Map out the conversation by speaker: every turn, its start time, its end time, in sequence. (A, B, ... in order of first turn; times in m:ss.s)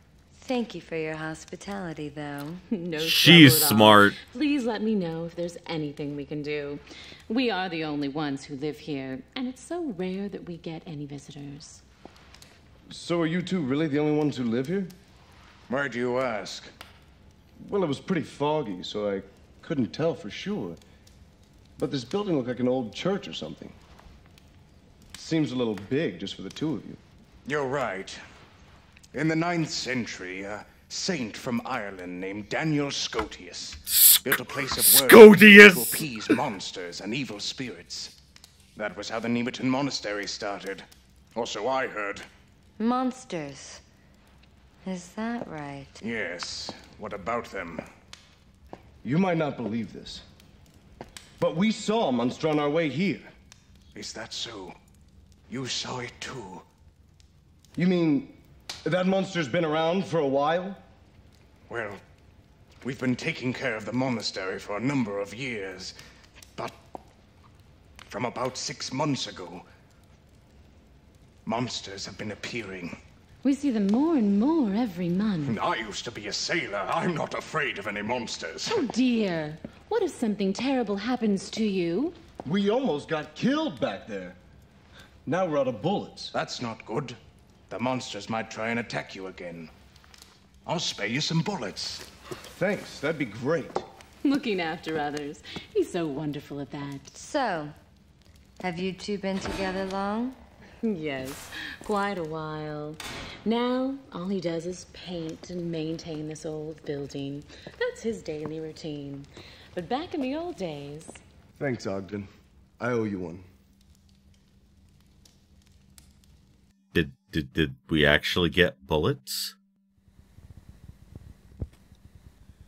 0:00.3-0:02.6 A
0:02.7-0:11.8 B
0:03.0-0:04.2 C
0:12.9-0:14.9 D
0:15.7-0:16.7 E
0:17.6-0:20.8 D
0:21.8-0:23.8 D
0:25.1-0:27.0 D
0:27.4-0:28.2 E
0:29.1-0:38.1 E
0:33.9-0:36.4 C
0:38.8-0:40.8 E
0:41.3-0:42.2 E
0:42.8-0:43.8 A
0:44.8-0:46.0 A
0:46.0-0:47.8 E
0:49.0-0:50.2 D
0:51.4-0:53.3 D
0:53.9-0:54.7 E
0:55.5-0:56.6 E
0:57.8-0:58.3 D
0:58.8-1:00.8 D
1:01.7-1:02.0 E
1:02.8-1:05.9 E
1:08.1-1:09.6 E
1:11.4-1:12.9 E
1:13.4-1:15.6 B
1:15.4-1:18.9 E
1:18.7-1:22.2 B
1:22.4-1:24.4 D
1:25.2-1:26.3 D
1:26.3-1:27.2 E
1:27.7-1:29.7 E
1:30.6-1:32.0 E
1:32.4-1:33.8 D
1:34.2-1:37.2 B
1:37.1-1:37.7 A
1:38.6-1:40.4 A
1:40.8-1:51.2 B
1:51.6-1:52.3 D
1:52.8-1:53.4 D
1:56.9-1:59.5 C